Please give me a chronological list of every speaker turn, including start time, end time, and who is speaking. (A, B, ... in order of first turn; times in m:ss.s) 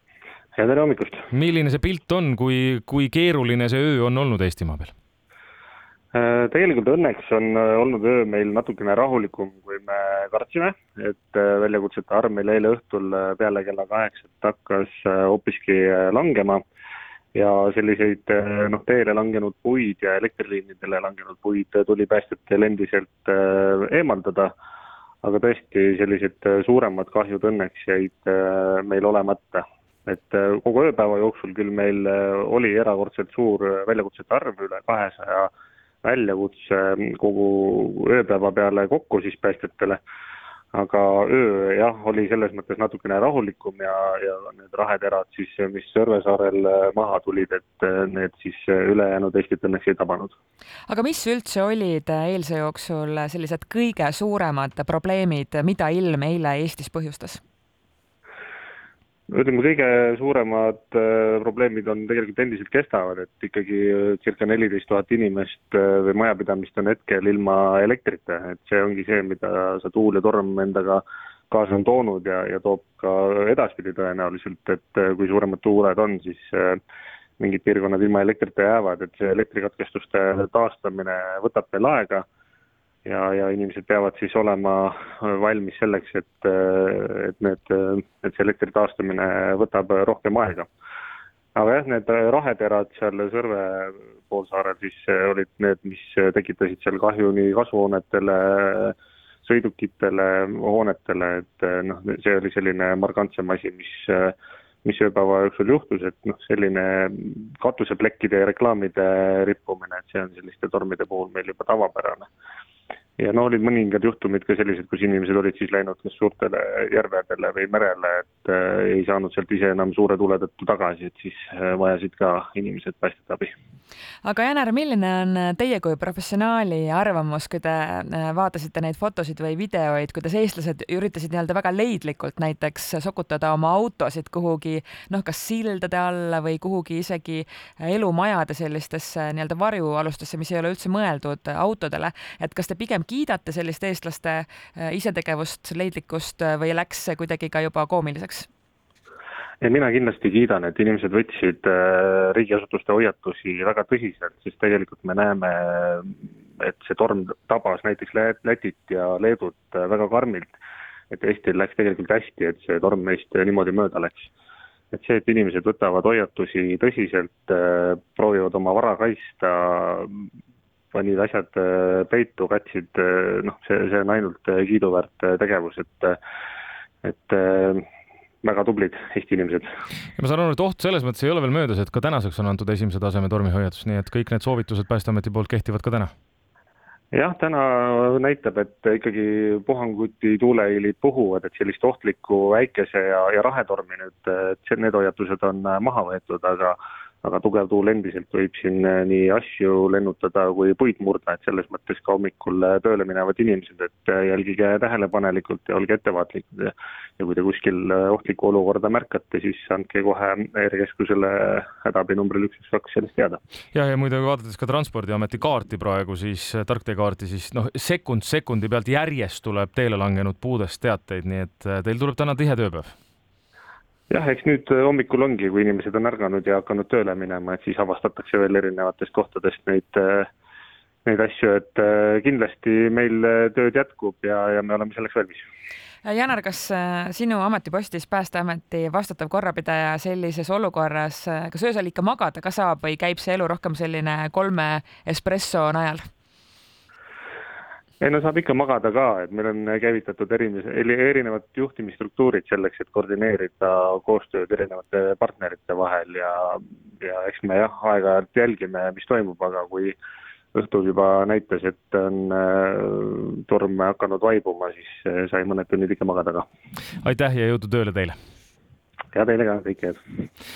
0:00.6-0:01.3 A
0:01.3-0:04.9 B
0:06.1-0:16.6 A
0:17.4-0:24.5 A
0:25.2-0:35.5 A
0:36.0-0:40.0 A
0:40.7-0:50.4 A
0:50.9-0:57.4 C
0:59.3-1:16.8 A
1:17.4-1:22.3 A
1:23.0-1:30.7 A
1:31.6-1:52.3 A
1:53.2-2:03.5 A
2:04.2-2:28.5 C
2:29.6-2:40.5 A
2:41.1-2:44.3 A
2:44.9-2:50.3 A
2:50.9-2:56.2 A
2:57.0-2:57.9 A
2:58.4-2:59.7 A
3:00.2-3:06.1 B
3:07.1-3:33.4 A
3:33.7-3:43.0 B
3:44.1-3:50.3 A
3:51.0-3:55.5 A
3:56.0-4:06.1 C
4:08.0-4:20.0 A
4:20.5-4:26.5 A
4:27.0-4:28.2 B
4:29.1-4:30.3 A